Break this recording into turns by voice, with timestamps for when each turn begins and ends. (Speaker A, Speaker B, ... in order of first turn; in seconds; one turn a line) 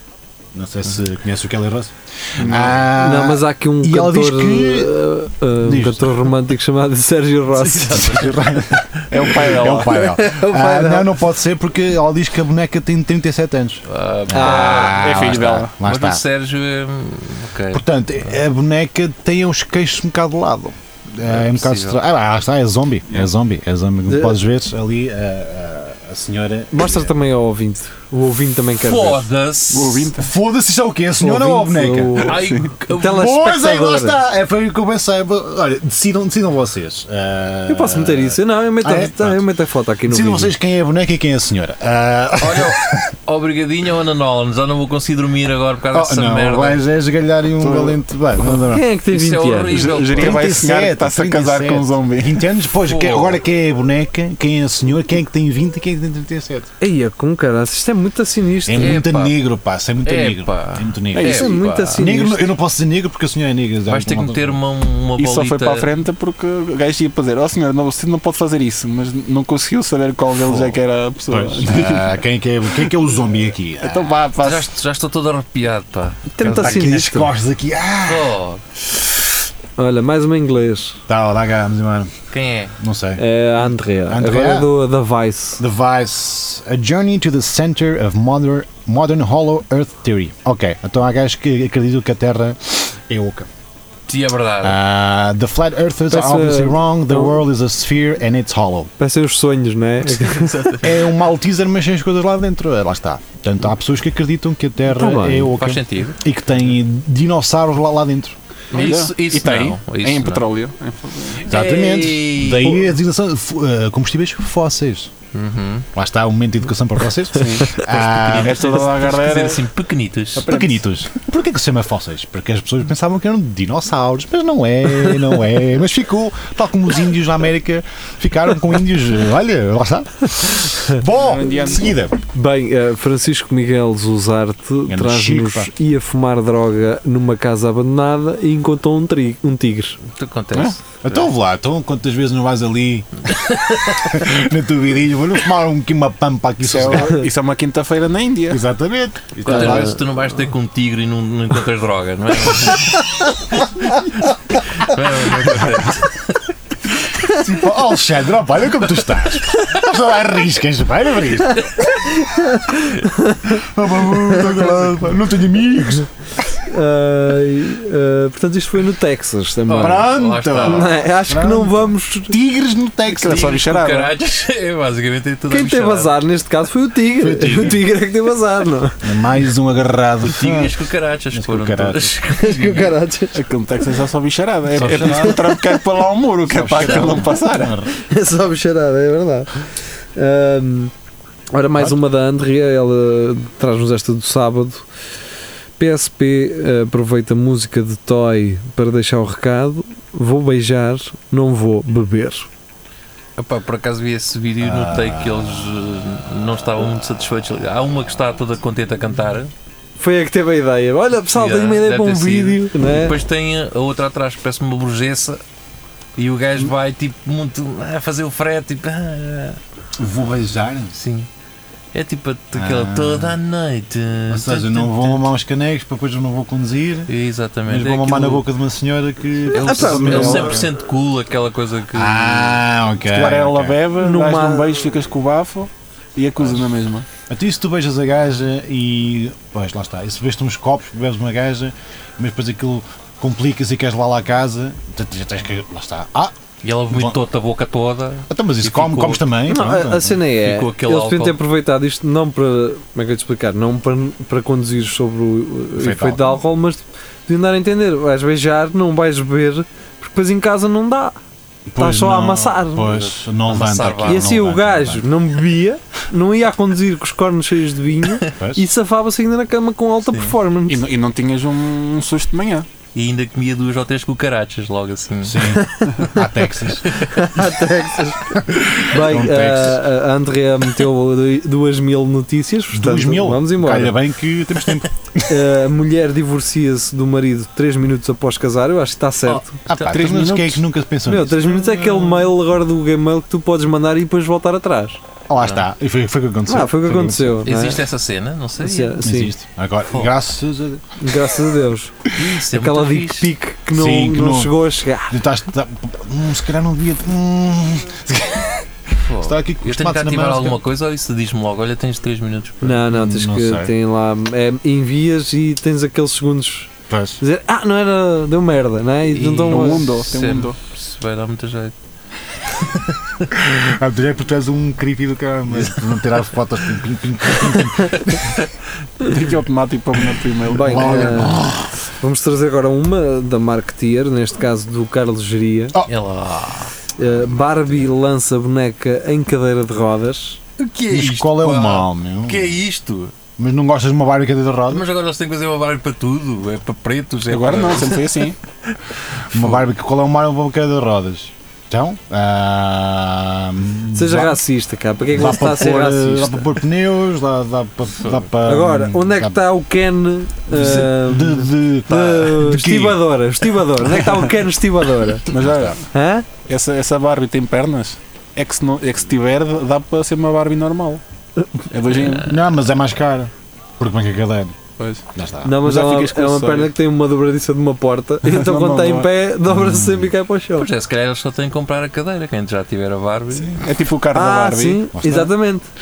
Speaker A: 0.5-5.0
Speaker B: 2.4-2.8
Speaker C: 2.9-8.3
Speaker A: 5.6-6.4
Speaker D: 7.7-8.1
Speaker A: 7.8-16.2
Speaker B: 9.1-10.0
Speaker C: 9.9-11.2
Speaker D: 13.9-17.8
Speaker B: 14.4-15.7
Speaker A: 17.7-27.1
Speaker D: 21.2-22.0
Speaker C: 24.1-24.4
Speaker C: 26.7-29.3
Speaker D: 28.8-30.1
Speaker B: 29.7-30.3
Speaker A: 30.1-32.4
Speaker C: 31.2-34.2
Speaker D: 32.2-33.3
Speaker B: 32.3-32.7
Speaker A: 33.0-39.4
Speaker C: 37.7-40.5
Speaker A: 40.1-43.1
Speaker D: 42.4-46.8
Speaker A: 45.9-48.9
Speaker B: 47.6-48.0
Speaker C: 48.6-49.9
Speaker D: 49.1-50.6
Speaker B: 49.7-52.5
Speaker A: 50.1-56.7
Speaker D: 52.9-53.4
Speaker C: 56.8-59.0
Speaker A: 58.6-64.6
Speaker D: 58.8-59.4
Speaker D: 60.0-62.0
Speaker B: 61.2-61.5
Speaker C: 61.2-62.5
Speaker D: 63.9-65.9
Speaker B: 65.2-72.1
Speaker A: 70.5-70.8
Speaker A: 71.3-74.2
Speaker B: 73.8-74.7
Speaker D: 74.4-76.8
Speaker C: 76.3-77.3
Speaker A: 76.4-78.4
Speaker D: 78.1-78.6
Speaker C: 79.8-81.0
Speaker A: 81.1-82.1
Speaker D: 82.3-82.8
Speaker A: 82.8-83.2
Speaker C: 83.2-85.6
Speaker A: 84.1-84.7
Speaker A: 85.6-93.5
Speaker D: 94.1-94.8
Speaker A: 94.6-98.9
Speaker C: 96.1-97.4
Speaker C: 99.0-100.9
Speaker D: 100.1-101.0
Speaker A: 100.8-108.3
Speaker C: 104.9-105.5
Speaker D: 105.6-106.2
Speaker D: 108.7-110.4
Speaker B: 108.7-111.5
Speaker A: 111.5-115.1
Speaker D: 111.5-112.8
Speaker D: 115.3-115.9
Speaker A: 116.0-118.7
Speaker B: 117.3-117.8
Speaker D: 118.0-120.5
Speaker B: 118.3-119.7
Speaker B: 120.4-120.8
Speaker A: 120.5-132.2
Speaker B: 131.1-131.9
Speaker C: 132.3-140.0
Speaker A: 134.9-135.7
Speaker D: 140.1-141.3
Speaker A: 141.0-147.2
Speaker B: 146.6-148.6
Speaker A: 148.5-150.0
Speaker D: 149.4-153.2
Speaker D: 154.6-156.4
Speaker A: 157.3-161.8
Speaker C: 162.0-163.6
Speaker A: 163.5-166.1
Speaker C: 166.7-172.3
Speaker D: 169.7-171.0
Speaker A: 169.8-173.5
Speaker B: 173.1-174.1
Speaker D: 173.2-176.1
Speaker C: 175.5-179.1
Speaker A: 177.2-177.8
Speaker A: 179.0-180.8
Speaker D: 180.3-182.9
Speaker A: 181.3-182.2
Speaker C: 182.3-183.4
Speaker B: 183.3-187.8
Speaker A: 184.7-185.6
Speaker C: 185.0-185.6
Speaker A: 186.5-187.9
Speaker C: 187.9-190.9
Speaker C: 191.5-194.9
Speaker C: 195.8-202.5
Speaker D: 203.4-209.5
Speaker A: 204.6-205.7
Speaker C: 210.0-213.2
Speaker D: 211.3-215.4
Speaker D: 216.2-219.6
Speaker A: 220.0-221.0
Speaker D: 220.9-221.3
Speaker D: 221.9-225.3
Speaker A: 222.6-223.4
Speaker A: 224.3-227.1
Speaker D: 227.1-228.5
Speaker A: 227.7-230.7
Speaker C: 229.5-230.6
Speaker D: 229.5-232.6
Speaker B: 230.1-230.6
Speaker A: 231.9-233.8
Speaker B: 233.1-237.1
Speaker C: 234.0-234.8
Speaker A: 237.3-246.3
Speaker D: 246.6-249.2
Speaker A: 246.9-247.2
Speaker A: 248.3-250.2
Speaker C: 249.5-261.2
Speaker D: 250.4-251.4
Speaker A: 255.8-256.4
Speaker A: 261.7-265.1
Speaker C: 261.8-263.1
Speaker D: 263.4-264.4
Speaker C: 264.1-270.8
Speaker A: 268.4-268.7
Speaker B: 270.7-272.7
Speaker D: 272.9-275.6
Speaker A: 275.2-276.9
Speaker D: 276.9-277.2
Speaker C: 277.1-284.0
Speaker A: 278.3-279.8
Speaker A: 282.7-285.4
Speaker C: 285.3-289.5
Speaker D: 289.3-290.1
Speaker A: 289.7-292.1
Speaker B: 289.9-290.6
Speaker C: 291.1-295.0
Speaker A: 295.3-297.5
Speaker D: 295.4-295.7
Speaker C: 296.5-297.8
Speaker D: 297.4-299.0
Speaker C: 298.6-299.4
Speaker A: 299.0-300.8
Speaker C: 301.0-305.2
Speaker D: 302.1-303.3
Speaker A: 303.7-304.6
Speaker A: 305.1-310.6
Speaker D: 309.0-312.8
Speaker C: 312.6-319.9
Speaker A: 312.9-313.7
Speaker A: 316.9-317.2
Speaker D: 319.1-321.7
Speaker B: 319.5-320.6
Speaker D: 322.7-323.2
Speaker A: 323.3-328.4
Speaker B: 329.0-331.3
Speaker C: 330.5-331.5
Speaker A: 330.6-331.7
Speaker C: 332.0-335.8
Speaker D: 335.9-336.7
Speaker C: 337.0-340.4
Speaker D: 340.6-343.1
Speaker A: 340.9-342.5
Speaker A: 343.4-344.9
Speaker D: 344.7-348.3
Speaker B: 347.3-348.4
Speaker D: 349.1-349.6
Speaker A: 349.3-354.4
Speaker C: 353.9-356.5
Speaker A: 355.1-359.4
Speaker C: 358.4-365.3
Speaker A: 360.5-363.1
Speaker B: 365.3-365.8
Speaker A: 365.3-365.8
Speaker C: 365.9-366.3
Speaker B: 366.5-371.0
Speaker B: 371.7-372.4
Speaker D: 372.0-372.3
Speaker A: 372.2-374.6
Speaker B: 374.8-375.0
Speaker A: 375.1-375.6
Speaker C: 375.4-380.7
Speaker B: 375.6-376.7
Speaker B: 378.2-379.1
Speaker A: 379.5-380.1
Speaker D: 380.6-383.7
Speaker B: 383.4-385.2
Speaker C: 384.1-385.7
Speaker A: 384.9-385.3